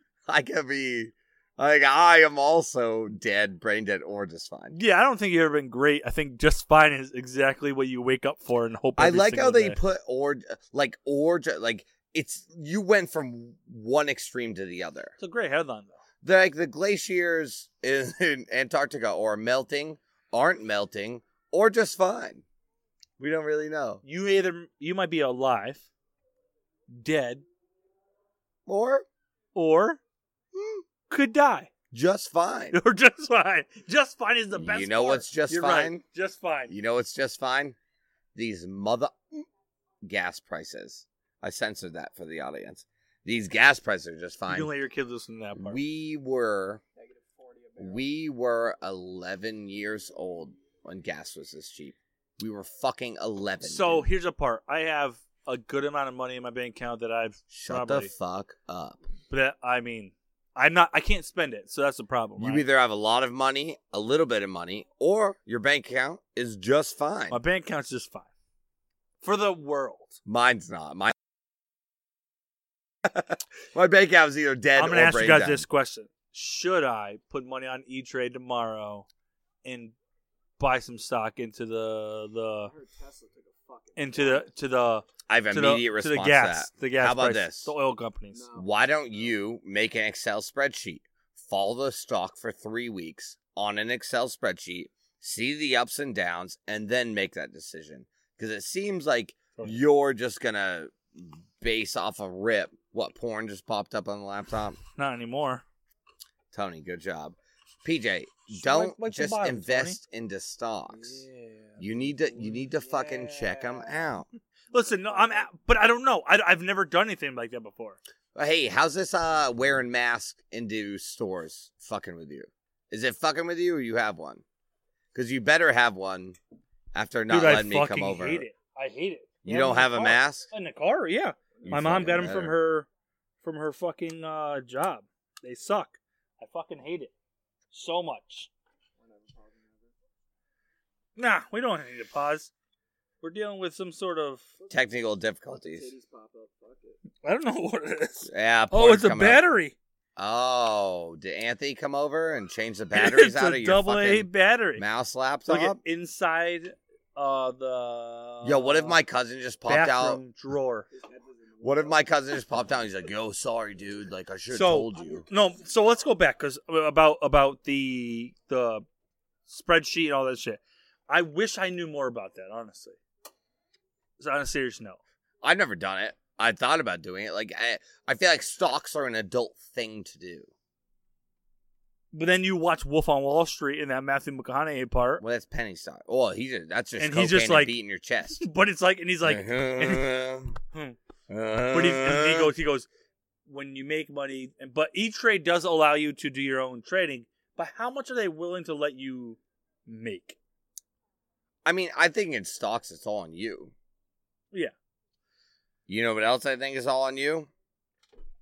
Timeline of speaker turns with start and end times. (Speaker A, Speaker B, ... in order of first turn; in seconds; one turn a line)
Speaker A: 0.3-4.8
Speaker B: 4.7-9.8
Speaker A: 9.0-15.1
Speaker B: 15.2-16.0
Speaker A: 16.2-22.4
Speaker A: 23.2-24.0
Speaker B: 24.0-25.9
Speaker B: 26.9-27.4
Speaker A: 28.7-29.1
Speaker B: 29.6-30.0
Speaker A: 30.5-30.8
Speaker B: 31.1-31.7
Speaker A: 31.9-32.8
Speaker B: 32.7-36.7
Speaker A: 34.5-36.0
Speaker A: 36.7-37.8
Speaker A: 38.4-39.5
Speaker A: 40.0-44.7
Speaker B: 44.5-45.8
Speaker A: 45.6-46.8
Speaker C: 47.0-48.1
Speaker A: 47.8-54.1
Speaker B: 53.6-58.1
Speaker A: 57.5-59.0
Speaker B: 59.3-62.6
Speaker A: 62.4-67.4
Speaker B: 67.3-68.3
Speaker B: 69.2-70.2
Speaker A: 70.3-71.1
Speaker A: 73.0-75.7
Speaker B: 74.8-79.1
Speaker B: 79.6-80.0
Speaker B: 80.6-82.7
Speaker C: 82.7-84.5
Speaker B: 84.0-88.4
Speaker A: 85.3-87.7
Speaker C: 88.3-89.1
Speaker A: 88.5-104.8
Speaker B: 104.9-105.6
Speaker A: 106.5-111.2
Speaker B: 108.5-110.0
Speaker C: 110.9-111.8
Speaker A: 111.8-114.3
Speaker C: 112.4-114.1
Speaker B: 114.7-118.0
Speaker C: 114.8-115.5
Speaker A: 118.3-124.4
Speaker A: 125.1-126.4
Speaker A: 126.9-128.4
Speaker B: 127.3-132.9
Speaker A: 129.5-130.5
Speaker A: 131.6-132.6
Speaker B: 133.4-137.1
Speaker B: 137.7-138.5
Speaker C: 139.0-139.9
Speaker B: 141.2-142.5
Speaker B: 143.2-144.4
Speaker C: 144.6-144.9
Speaker A: 144.7-145.9
Speaker C: 145.6-147.0
Speaker B: 147.2-149.8
Speaker A: 148.2-149.4
Speaker A: 150.2-155.8
Speaker B: 152.9-154.8
Speaker B: 155.5-159.0
Speaker A: 158.4-160.2
Speaker B: 159.7-160.9
Speaker C: 160.9-162.6
Speaker A: 161.6-165.2
Speaker B: 164.5-168.8
Speaker C: 165.0-165.6
Speaker B: 169.5-173.0
Speaker B: 174.2-175.0
Speaker A: 175.4-180.5
Speaker B: 182.1-185.2
Speaker A: 185.2-188.4
Speaker B: 187.0-187.7
Speaker B: 188.4-190.1
Speaker A: 189.2-190.6
Speaker A: 191.3-192.5
Speaker B: 191.7-192.9
Speaker B: 193.5-200.4
Speaker A: 201.7-203.7
Speaker A: 205.9-207.5